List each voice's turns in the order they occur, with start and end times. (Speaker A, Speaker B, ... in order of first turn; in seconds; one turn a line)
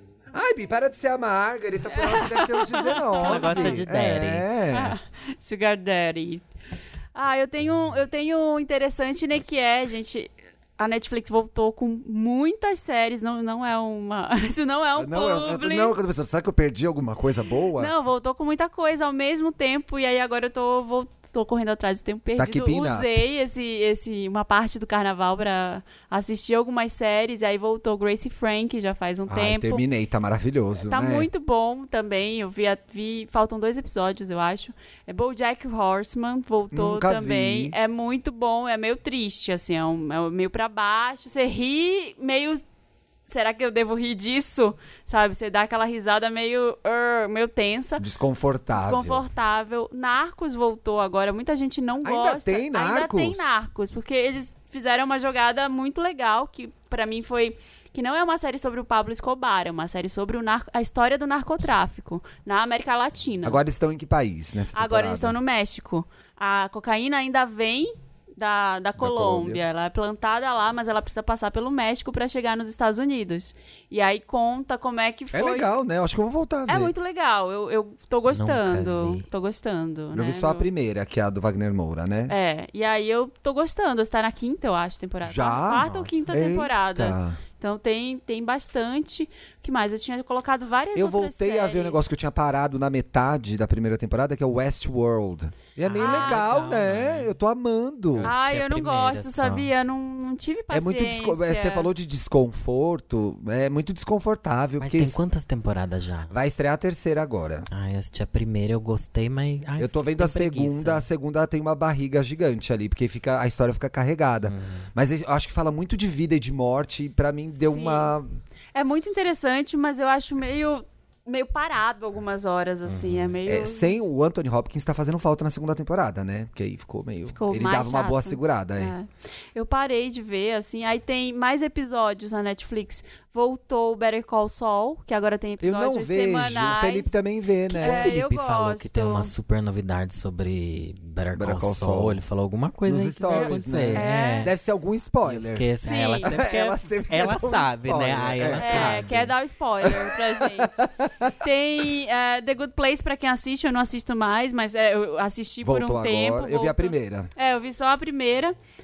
Speaker A: 0.3-5.0
Speaker B: 1.9-3.8
Speaker C: 3.1-4.5
Speaker B: 4.7-6.4
Speaker B: 7.2-16.0
Speaker A: 15.0-17.9
Speaker B: 17.8-29.8
Speaker A: 22.4-23.1
Speaker A: 29.3-31.3
Speaker B: 30.9-42.6
Speaker A: 36.7-37.8
Speaker B: 43.3-48.1
Speaker A: 48.0-49.2
Speaker B: 48.7-63.6
Speaker A: 52.0-53.6
Speaker A: 63.4-65.4
Speaker B: 64.7-75.7
Speaker A: 69.0-69.6
Speaker A: 75.3-76.9
Speaker B: 76.7-80.7
Speaker C: 78.3-79.2
Speaker A: 80.1-82.3
Speaker B: 82.3-92.0
Speaker A: 85.2-87.4
Speaker C: 85.7-86.3
Speaker A: 91.0-98.3
Speaker C: 95.8-97.3
Speaker B: 96.0-96.4
Speaker C: 98.2-99.7
Speaker B: 98.2-101.9
Speaker A: 100.7-105.2
Speaker C: 104.8-106.3
Speaker A: 106.3-107.7
Speaker C: 107.7-111.0
Speaker A: 109.8-118.3
Speaker C: 114.5-114.9
Speaker B: 117.6-118.1
Speaker B: 118.8-124.0
Speaker C: 122.9-123.4
Speaker A: 123.5-128.9
Speaker B: 127.3-137.1
Speaker A: 135.6-138.1
Speaker B: 137.7-139.3
Speaker C: 137.8-144.5
Speaker A: 141.3-142.2
Speaker A: 142.9-145.7
Speaker B: 143.3-144.5
Speaker C: 145.2-149.3
Speaker B: 145.8-146.3
Speaker A: 146.2-149.0
Speaker B: 148.6-150.9
Speaker A: 149.8-151.3
Speaker B: 151.4-158.6
Speaker A: 155.6-157.3